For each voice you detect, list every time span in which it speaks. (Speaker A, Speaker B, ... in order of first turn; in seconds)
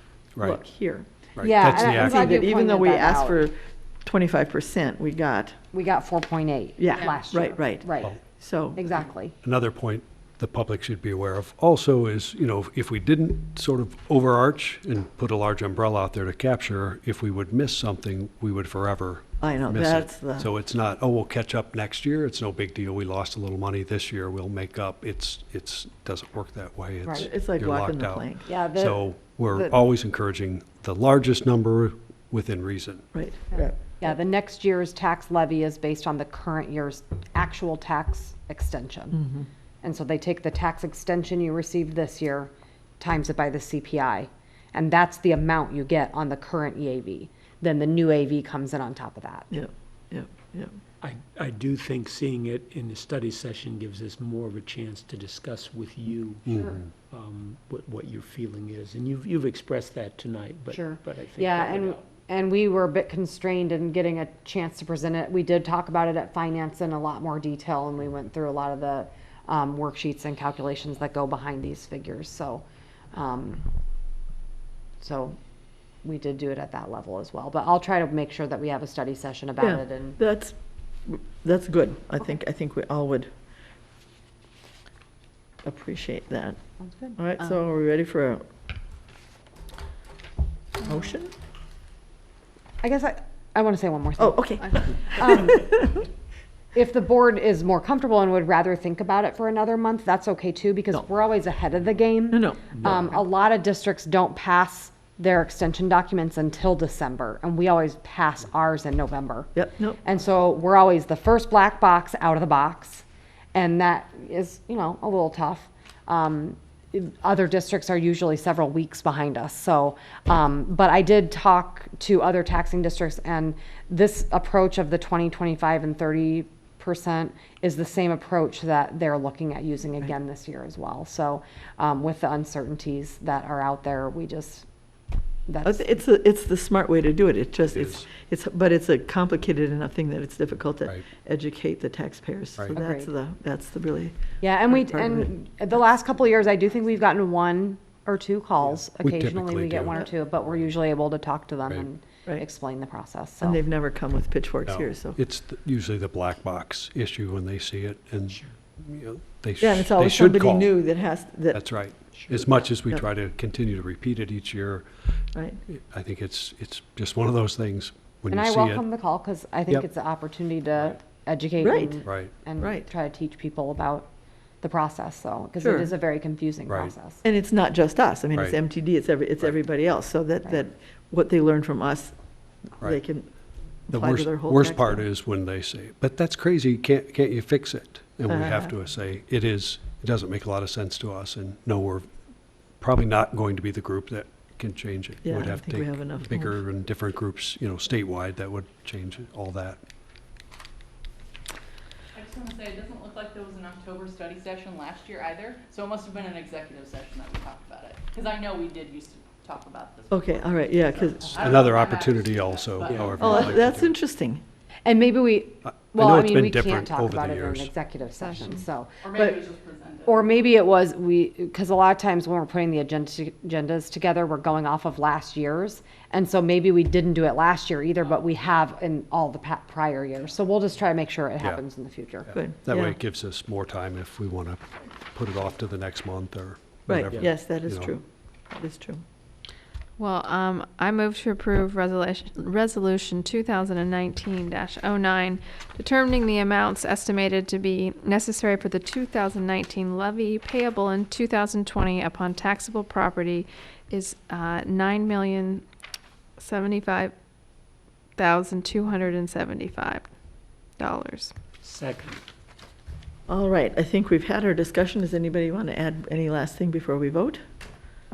Speaker A: 0.4-1.1, 1.8-5.6, 6.8-8.8, 19.4-20.5, 27.1-28.5, 33.1-33.7, 49.5-50.8, 79.6-83.3, 85.6-86.6, 87.2-88.4, 90.8-91.3, 94.2-96.0, 102.3-102.8, 109.5-110.0, 135.6-144.2, 144.7-145.3, 153.4-155.2, 159.6-161.6, 165.3-165.6, 171.6-172.0, 172.6-172.9, 175.6-175.9, 177.2-182.2, 182.7-183.3, 183.9-185.1, 188.3-188.7, 195.2-196.5, 210.1-211.4, 213.2-214.4, 232.3-232.9, 236.9-239.0, 263.3-267.4
Speaker B: 1.4-2.4, 9.4-33.1, 137.7-138.1, 148.9-150.0, 154.7-160.7, 161.5-164.9, 165.7-168.8, 172.1-172.3, 183.9-192.1, 192.8-199.8, 211.3-213.9, 215.7-217.7, 232.2-237.9
Speaker C: 1.4-3.4, 5.7-8.2, 8.8-9.3, 28.5-29.0, 33.5-39.2, 39.8-49.5, 56.5-56.8, 60.7-73.7, 75.0-75.4, 76.0-80.2, 86.9-87.2, 92.8-95.6, 96.7-109.5, 110.0-134.7, 135.5-135.9, 142.7-143.1, 144.4-153.6, 168.3-174.1, 174.6-177.2, 214.9-219.4, 220.1-232.3
Speaker D: 51.0-56.5, 57.1-62.0, 261.6-262.2
Speaker E: 202.1-213.6, 219.0-220.3
Speaker F: 240.0-255.6, 256.4-257.1, 258.2-260.1, 260.8-261.3